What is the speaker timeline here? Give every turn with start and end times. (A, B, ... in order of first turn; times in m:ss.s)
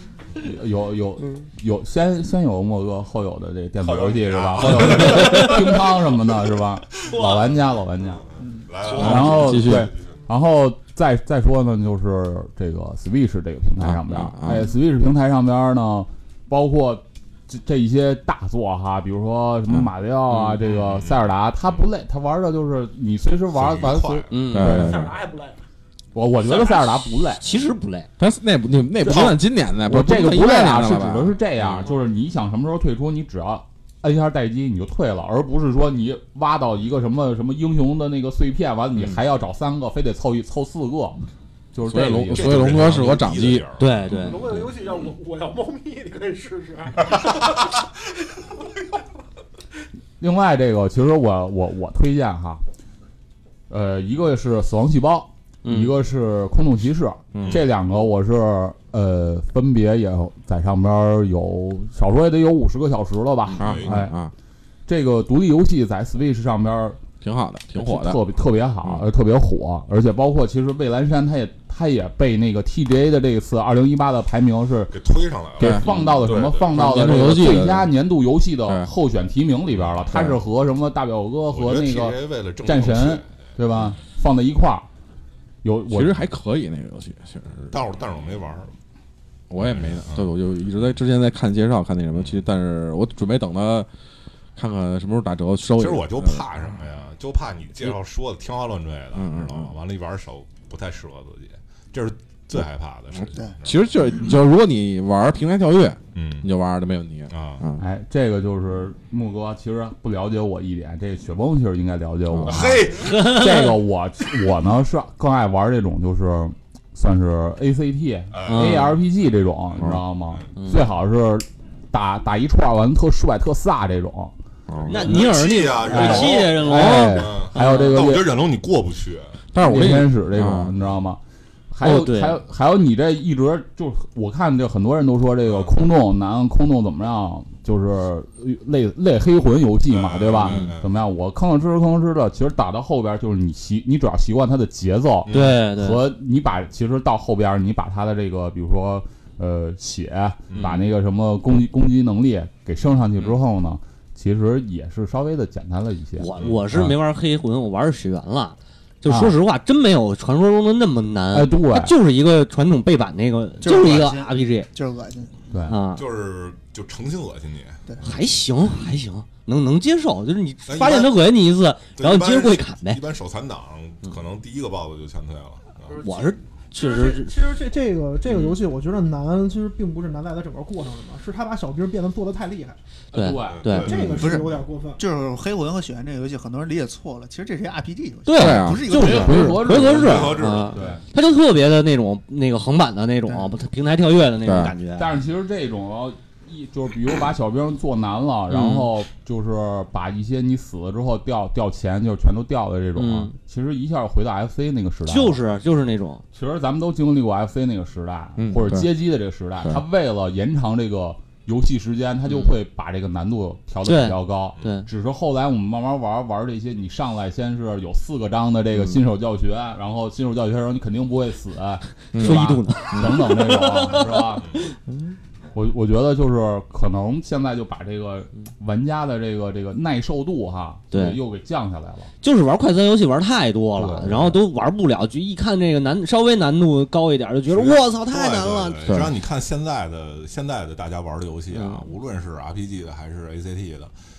0:00.4-0:08.2 A
0:03.8-0:05.9 B
0:05.2-0:05.5 C
0:08.2-0:10.2 B
0:08.4-0:08.7 D
0:08.9-0:25.1 A
0:09.0-0:09.9 E
0:13.8-0:14.7 E
0:20.7-0:21.2 B
0:23.5-0:24.3 B
0:24.3-0:24.9 C
0:24.5-0:25.2 E
0:24.8-0:25.6 F
0:26.1-0:27.4 A
0:26.4-0:28.1 C
0:28.2-0:31.9 E
0:29.0-0:41.2 A
0:41.7-0:43.0 A
0:41.8-0:43.7 E
0:42.3-0:44.2 B
0:43.8-0:44.6 C
0:44.2-0:47.4 F
0:50.2-0:52.6 A
0:53.7-1:04.2 A
0:55.6-0:55.9 C
0:57.3-0:57.6 E
1:03.6-1:03.9 B
1:03.6-1:04.3 E
1:04.9-1:07.0 A
1:07.2-1:08.2 E
1:07.8-1:15.0 A
1:14.9-1:16.8 B
1:15.6-1:24.9 A
1:15.6-1:16.1 E
1:16.7-1:17.9 E
1:21.5-1:23.4 B
1:25.6-1:26.2 A
1:25.9-1:27.7 E
1:27.7-1:28.7 B
1:29.5-1:33.9 E
1:29.6-1:30.3 B
1:34.6-1:36.5 E
1:35.8-1:43.9 B
1:39.2-1:39.7 E
1:43.6-1:47.8 E
1:46.1-1:46.5 B
1:47.3-1:47.7 B
1:47.8-2:04.3 A
1:52.3-1:52.7 E
1:52.4-1:53.3 B
1:53.0-1:53.8 C
1:58.3-1:58.8 B
1:58.5-1:58.9 C
2:00.6-2:00.8 C
2:04.7-2:05.0 E
2:04.8-2:09.4 B
2:04.9-2:08.2 C
2:05.8-2:08.2 A
2:06.6-2:07.2 E
2:09.5-2:10.7 E
2:09.6-2:11.2 A
2:11.7-2:37.0 A
2:11.8-2:12.4 C
2:15.5-2:15.8 B
2:19.9-2:20.9 B
2:25.2-2:25.6 B
2:25.3-2:26.0 C
2:30.5-2:30.8 B
2:36.2-2:44.7 C
2:36.4-2:36.6 B
2:39.1-2:39.4 A
2:41.3-2:41.9 A
2:43.6-2:45.5 D
2:45.5-2:45.8 A
2:45.7-2:46.1 C
2:46.0-2:47.8 B
2:48.0-2:53.0 C
2:50.7-2:51.1 B
2:51.9-2:56.0 B
2:55.9-3:02.8 F
2:56.0-2:57.3 C
2:58.3-2:58.6 C
3:03.1-3:03.9 A
3:03.1-3:04.2 C
3:03.4-3:04.5 B
3:03.8-3:05.0 F
3:04.1-3:09.7 D
3:08.3-3:15.1 C
3:08.4-3:09.6 E
3:08.9-3:11.0 A
3:09.8-3:10.8 B
3:13.3-3:13.6 D
3:14.4-3:14.7 E
3:15.0-3:25.4 A
3:18.5-3:18.9 C
3:23.0-3:23.3 C
3:25.1-3:26.2 C
3:26.3-3:44.5 A
3:28.4-3:28.9 E
3:32.3-3:32.5 C
3:33.8-3:34.9 C
3:42.1-3:43.2 E
3:42.2-3:45.1 C
3:45.5-3:52.1 A
3:50.9-3:51.2 C
3:52.2-3:59.0 C
3:53.8-3:54.4 A
3:57.5-4:03.9 B
3:58.8-3:59.1 E
4:01.5-4:01.9 C